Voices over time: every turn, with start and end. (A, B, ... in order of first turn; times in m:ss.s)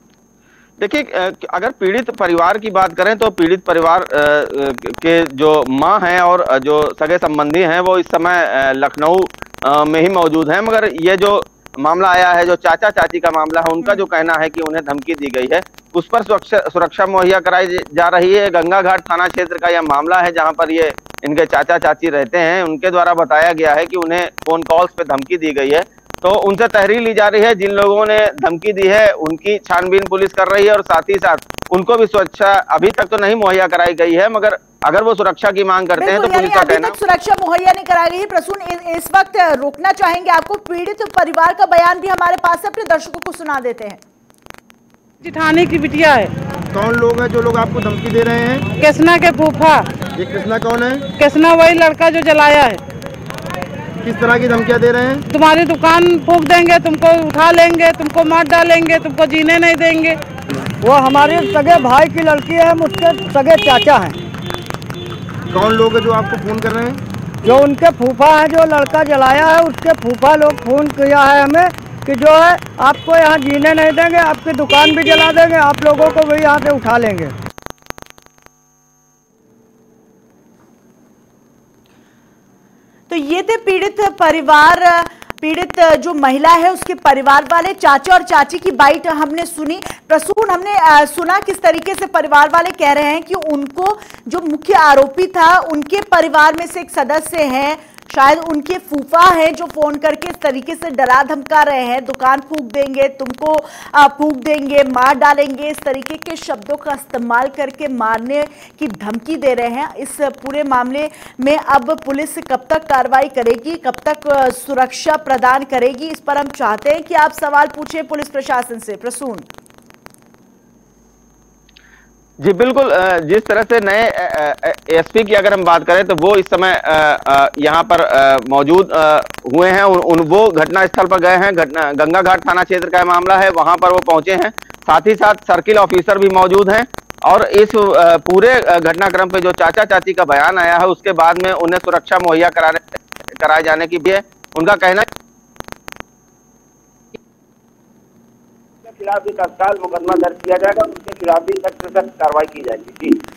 0:00.8-0:36.9 A
0:36.0-0:44.0 B
0:45.2-0:46.3 C
0:46.7-0:48.6 D
0:48.8-0:49.9 C
0:50.2-0:51.0 D
0:51.2-0:52.8 C
0:54.0-0:55.2 D
0:55.3-1:00.2 C
1:00.8-1:04.2 E
1:05.5-1:07.0 D
1:07.4-1:17.3 E
1:23.1-1:59.4 B
2:02.4-2:25.0 A
2:28.8-2:33.2 F